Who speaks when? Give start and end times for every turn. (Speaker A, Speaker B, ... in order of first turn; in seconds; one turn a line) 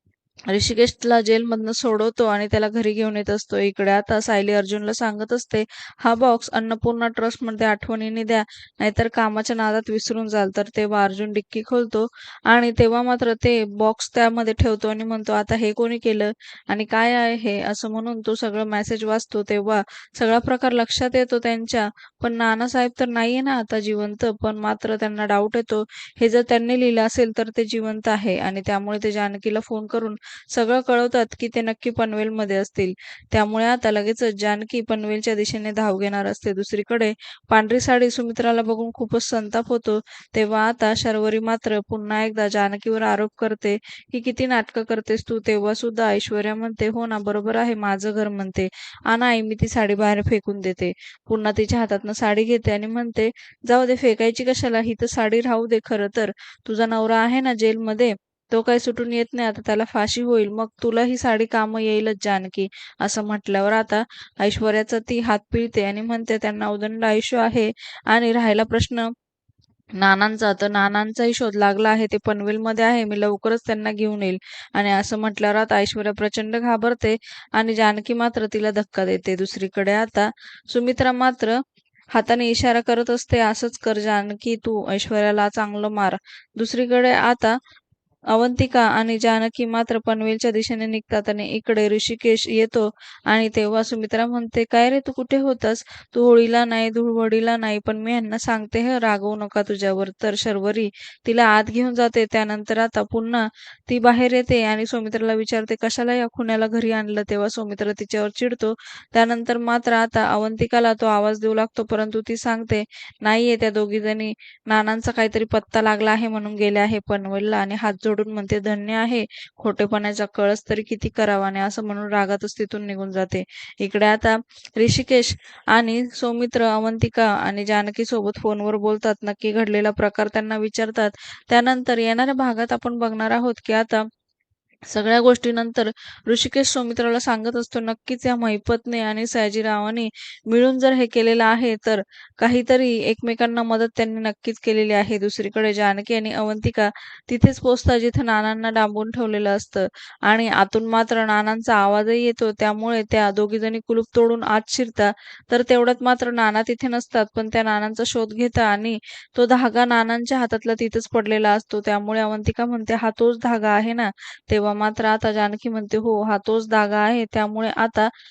Speaker A: 0.5-69.1
Speaker A: 70.0-81.5
Speaker A: 82.1-87.5
Speaker A: 88.3-134.0
Speaker A: 134.9-168.1